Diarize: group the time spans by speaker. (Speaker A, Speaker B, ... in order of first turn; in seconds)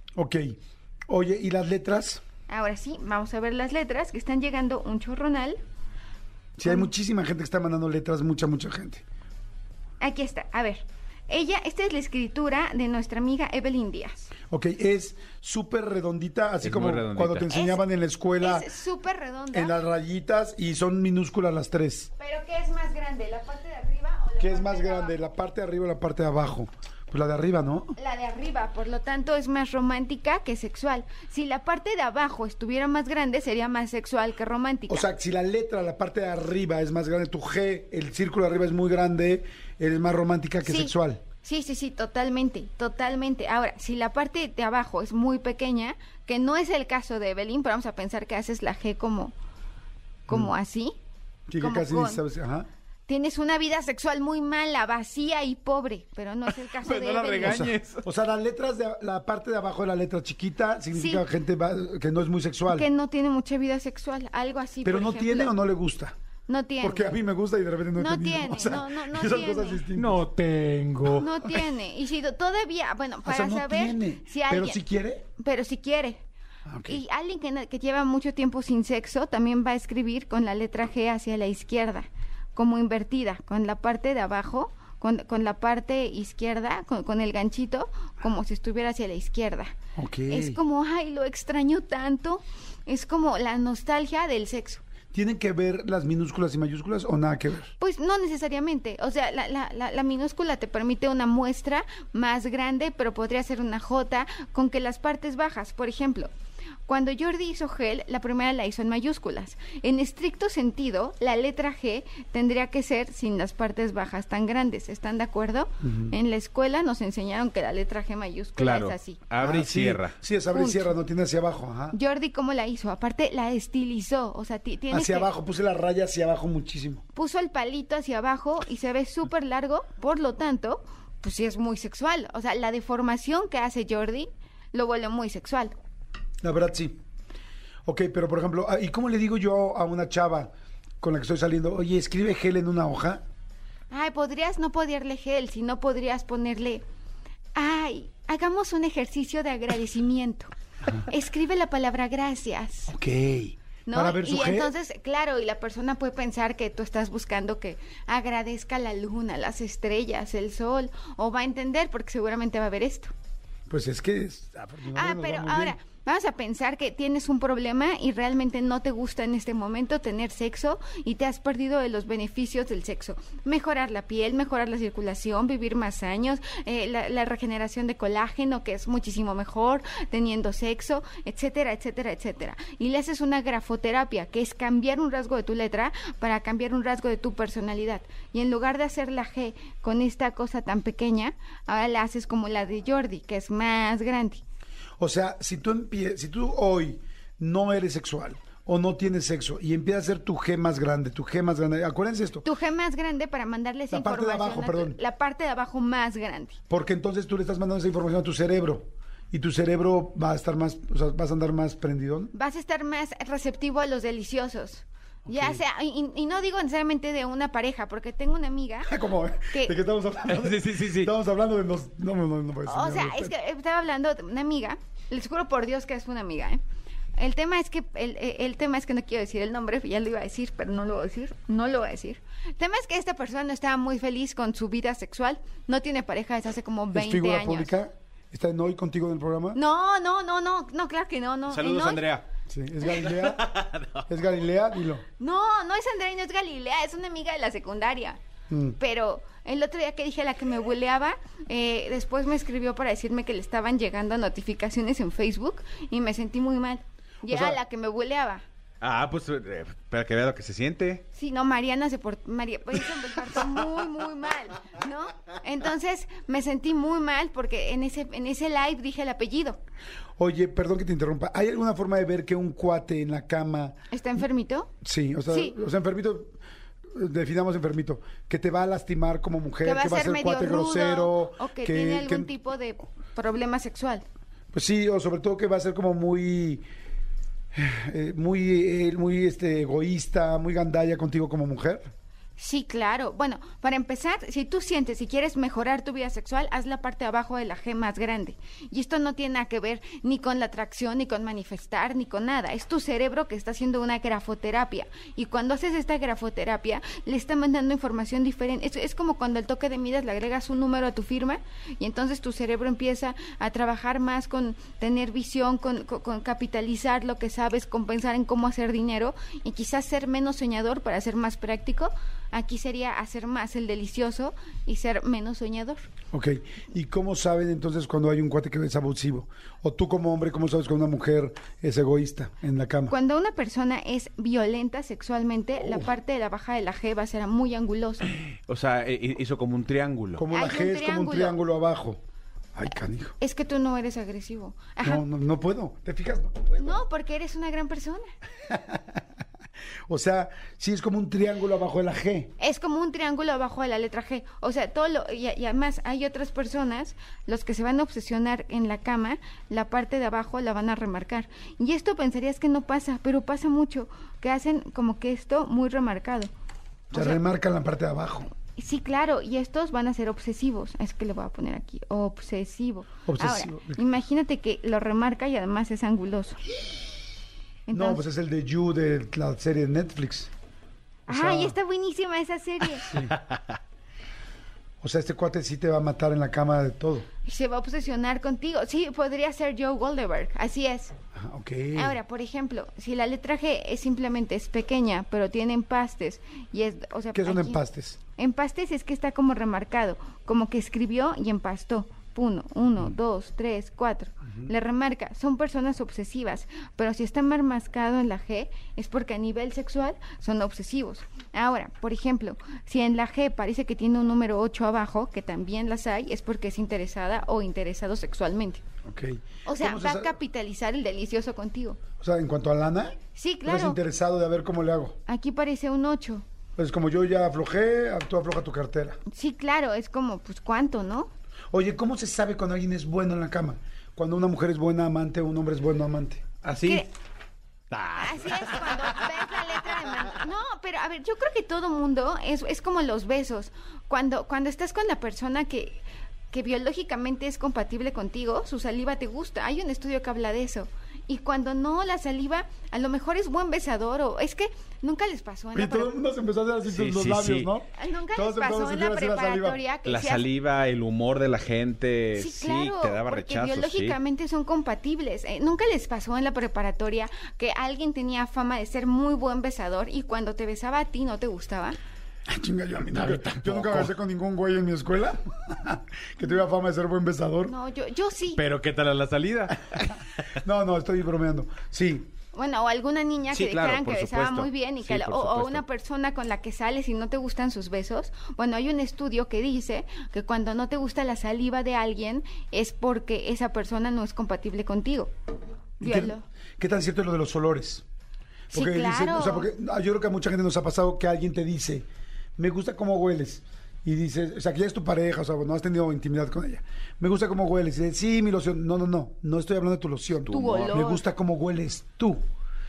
Speaker A: 0.2-2.2, 6.6-9.0, 14.5-18.7, 19.5-22.1, 24.4-27.9, 34.9-41.2, 51.5-52.7, 57.4-62.9, 64.8-66.2, 66.8-70.2, 73.2-75.2, 76.7-77.0, 90.0-90.6, 95.1-97.7, 115.8-116.2, 119.4-122.0, 124.9-127.0, 136.4-137.0, 137.8-143.2, 152.9-154.7, 163.7-165.8, 195.0-202.5, 203.9-205.0, 206.7-212.3, 215.3-215.6, 218.9-223.3, 236.9-239.6, 242.5-245.0, 248.5-248.8, 257.3-257.6, 270.2-273.8, 274.8-276.4, 276.9-282.3, 284.5-286.6, 287.5-291.9, 326.1-332.9, 340.2-342.0, 342.6-343.1, 344.8-346.8, 348.4-349.0, 349.9-352.3, 366.9-368.3, 373.1-373.8, 377.7-380.3, 381.1-381.6, 382.9-383.1, 384.8-387.1, 391.1-392.0, 397.1-398.0, 418.9-420.2, 422.0-425.0, 426.6-429.0, 431.5-436.4, 455.6-459.6, 472.3-477.5, 480.4-482.1, 495.8-497.9, 498.5-501.9, 502.4-512.2
Speaker B: 2.5-5.6, 10.0-14.3, 17.5-17.8, 18.4-19.8, 22.2-25.2, 28.0-35.1, 40.6-49.3, 50.3-51.0, 51.6-52.2, 53.1-57.7, 60.9-61.2, 62.7-65.6, 66.5-67.2, 68.0-69.8, 71.2-74.8, 75.4-76.2, 76.9-89.8, 90.3-94.8, 97.8-106.3, 106.9-119.2, 120.5-120.9, 121.9-125.3, 127.2-135.8, 143.9-146.8, 147.6-150.5, 151.0-152.9, 153.9-163.1, 164.9-194.4, 202.4-206.6, 212.3-218.9, 219.5-219.8, 222.7-226.6, 227.2-237.7, 239.6-242.0, 245.2-248.2, 248.8-258.4, 261.1-269.6, 273.9-274.7, 275.3-275.6, 279.6-284.1, 292.4-325.9, 332.9-338.1, 340.3-341.4, 343.2-345.0, 346.6-348.1, 352.4-366.3, 366.9-367.2, 368.6-376.4, 377.7-378.0, 381.1-383.0, 387.2-390.9, 391.8-397.6, 398.2-418.6, 419.4-421.8, 423.1-423.8, 425.1-426.2, 429.1-431.1, 436.6-436.9, 437.9-455.9, 457.8-460.2, 462.2-471.8, 477.5-478.4, 482.3-495.1, 495.8-496.2, 498.5-499.5, 510.3-511.0
Speaker C: 16.6-17.5, 56.6-58.0, 69.9-71.3, 118.6-120.2, 220.3-221.1, 241.5-242.2, 243.0-244.1, 258.8-261.1, 338.5-340.3, 382.9-383.6, 436.4-436.9, 437.7-439.3, 456.7-457.5, 459.9-464.0, 472.9-473.9, 478.4-480.3, 483.3-485.6, 510.3-510.7